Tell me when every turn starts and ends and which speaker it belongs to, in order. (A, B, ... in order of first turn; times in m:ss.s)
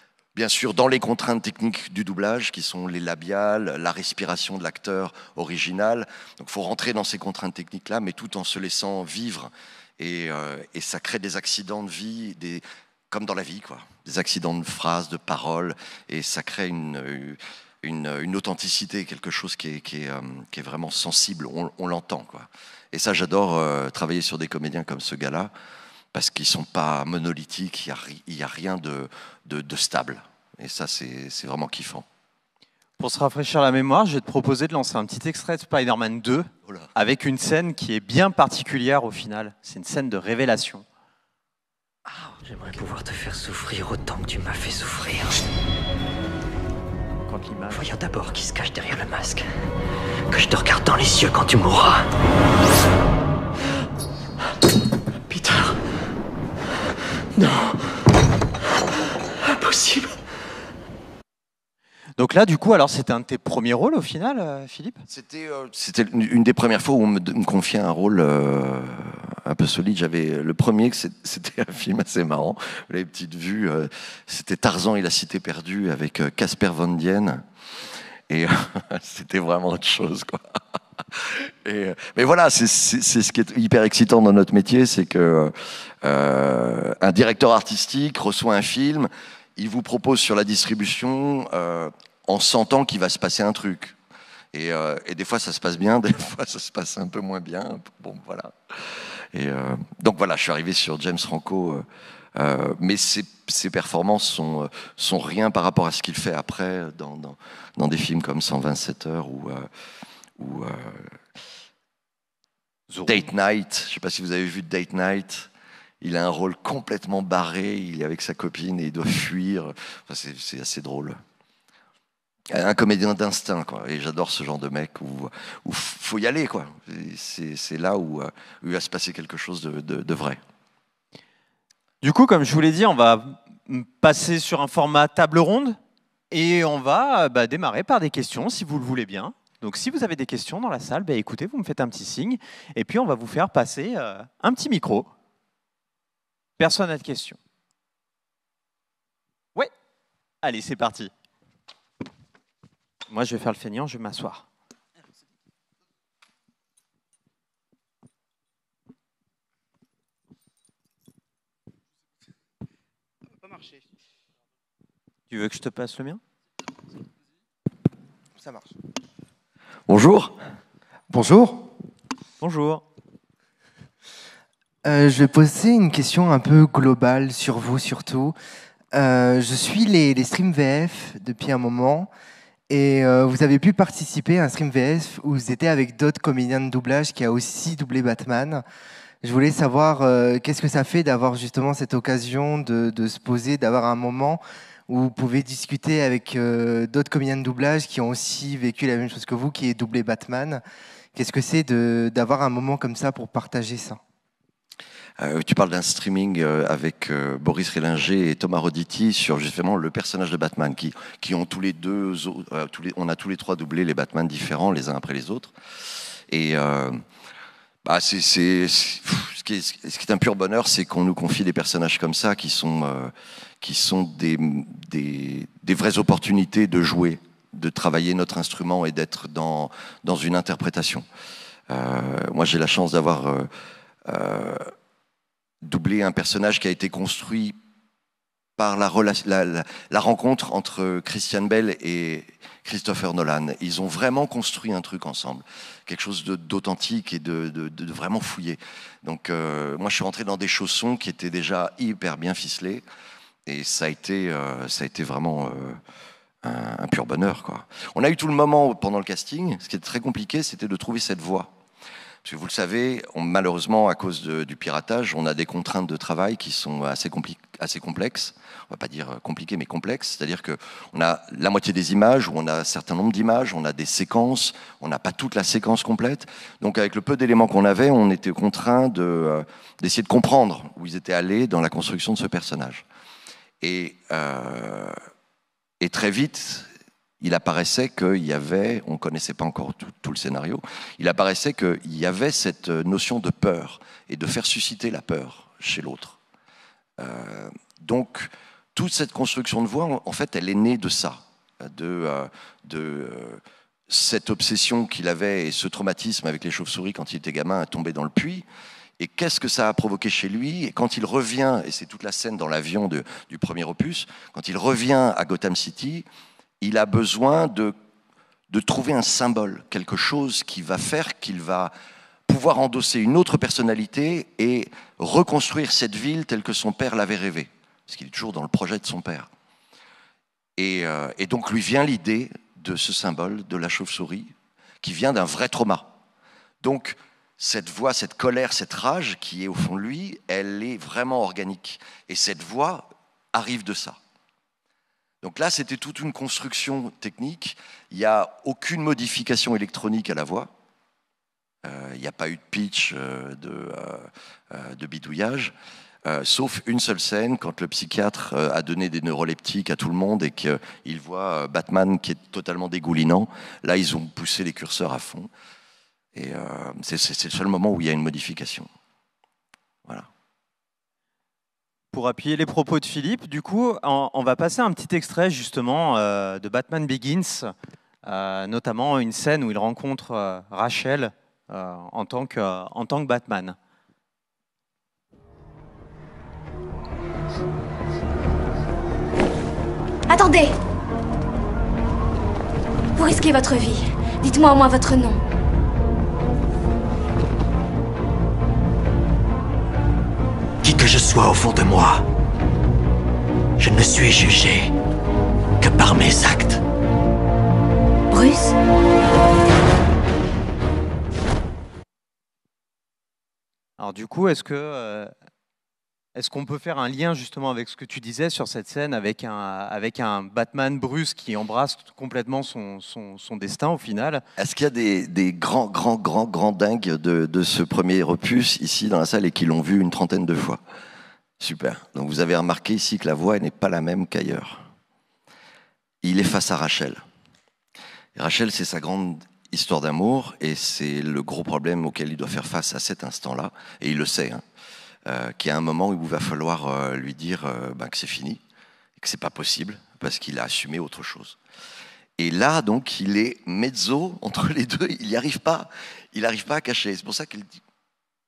0:00.4-0:25.5 A
0:26.1-0:32.0 A
0:33.0-0:40.9 B
0:42.4-0:45.4 C
0:47.2-0:47.9 B
0:47.7-0:49.5 C
0:50.3-0:52.1 C
0:55.3-0:55.8 C
0:57.4-0:57.8 C
0:59.4-1:00.2 C
1:02.2-1:05.0 B
1:05.1-1:17.4 A
1:18.3-1:20.6 A
1:21.1-1:34.0 A
1:34.5-1:41.8 A
1:42.4-1:49.7 A
1:50.4-1:51.1 A
1:52.9-1:53.2 B
1:53.1-1:55.5 A
1:56.0-2:01.2 A
2:02.5-2:10.4 A
2:12.0-2:15.8 B
2:16.3-2:25.1 B
2:26.6-2:27.4 B
2:30.4-2:31.1 B
2:33.1-2:34.5 B
2:45.3-2:46.2 B
2:49.9-2:50.4 A
2:51.1-2:51.5 D
2:52.4-2:52.8 B
2:54.8-2:58.4 D
2:58.9-3:02.1 D
3:02.7-3:08.6 D
3:09.2-3:20.6 D
3:21.1-3:24.0 D
3:25.2-3:35.5 A
3:36.3-3:37.0 A
3:37.8-3:51.1 A
3:51.7-3:53.5 A
3:54.1-3:54.7 A
3:55.6-3:57.6 A
3:58.6-4:12.8 A
4:13.4-4:15.8 A
4:16.4-4:21.5 A
4:22.2-4:42.8 A
4:43.6-4:44.9 A
4:45.8-4:46.7 A
4:47.2-4:56.2 A
4:57.0-5:08.4 A
5:09.0-5:16.1 A
5:16.6-5:17.7 A
5:18.5-5:21.7 A
5:22.3-5:29.3 A
5:30.6-5:35.9 A
5:36.6-5:44.0 A
5:45.2-5:50.5 A
5:51.6-5:55.5 A
5:56.0-6:05.3 A
6:06.2-6:08.7 A
6:11.9-6:17.5 B
6:18.0-6:23.6 B
6:30.1-6:30.6 E
6:33.0-6:35.2 E
6:40.6-6:42.1 C
6:43.6-6:44.7 C
6:45.6-6:46.6 C
6:48.1-6:48.6 E
6:53.8-6:55.1 B
6:56.2-7:04.2 B
7:04.4-7:10.6 A
7:11.4-7:14.7 A
7:16.0-7:17.0 A
7:18.2-7:24.4 A
7:25.1-7:28.4 A
7:29.0-7:31.4 A
7:32.2-7:37.6 A